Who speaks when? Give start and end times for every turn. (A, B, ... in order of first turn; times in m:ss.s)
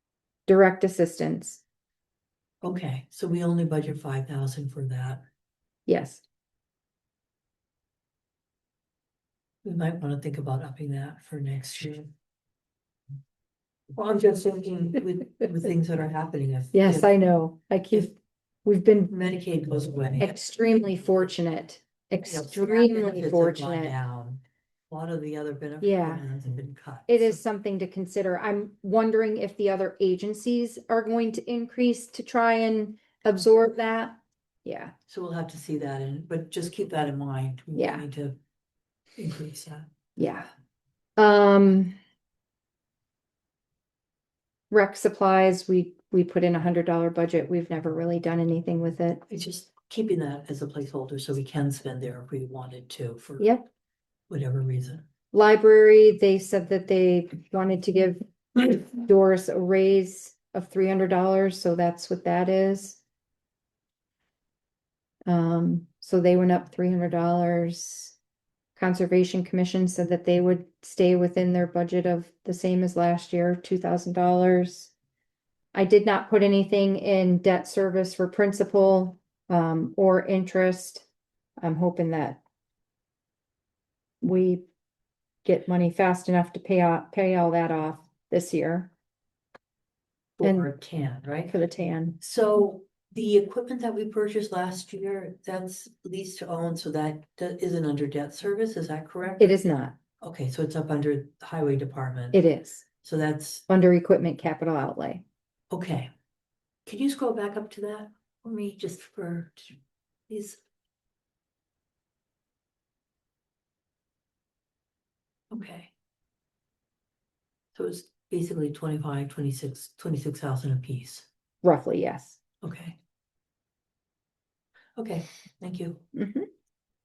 0:00.5-0:01.6 A
0:02.6-0:05.2 B
0:05.9-0:06.2 A
0:09.6-0:12.1 B
0:13.9-0:17.1 B
0:16.7-0:19.2 A
0:19.1-0:20.4 B
0:20.2-0:24.0 A
0:22.3-0:27.4 B
0:25.8-0:26.3 A
0:27.1-0:34.9 A
0:35.1-0:38.4 B
0:37.7-0:38.1 A
0:39.2-0:39.9 B
0:40.2-0:40.5 A
0:41.2-0:42.0 A
0:44.7-0:49.2 A
0:49.3-0:53.5 B
0:53.4-0:53.6 A
0:54.3-0:55.0 B
0:55.3-1:03.0 A
1:05.3-1:08.2 A
1:08.8-1:14.9 A
1:15.7-1:21.1 A
1:21.6-1:22.4 A
1:24.2-1:24.7 A
1:25.4-1:28.9 A
1:30.4-1:31.6 B
1:30.4-1:30.7 A
1:31.5-1:32.2 A
1:32.2-1:39.6 B
1:39.4-1:40.0 A
1:40.2-1:42.4 B
1:42.3-1:42.8 A
1:43.0-1:43.6 B
1:43.7-1:45.2 A
1:45.7-1:46.1 B
1:46.9-1:49.8 B
1:50.3-1:50.6 B
1:55.5-1:55.9 B
1:57.7-2:01.3 B
2:01.6-2:02.4 A
2:02.6-2:03.0 B
2:05.0-2:06.0 B
2:06.1-2:06.5 A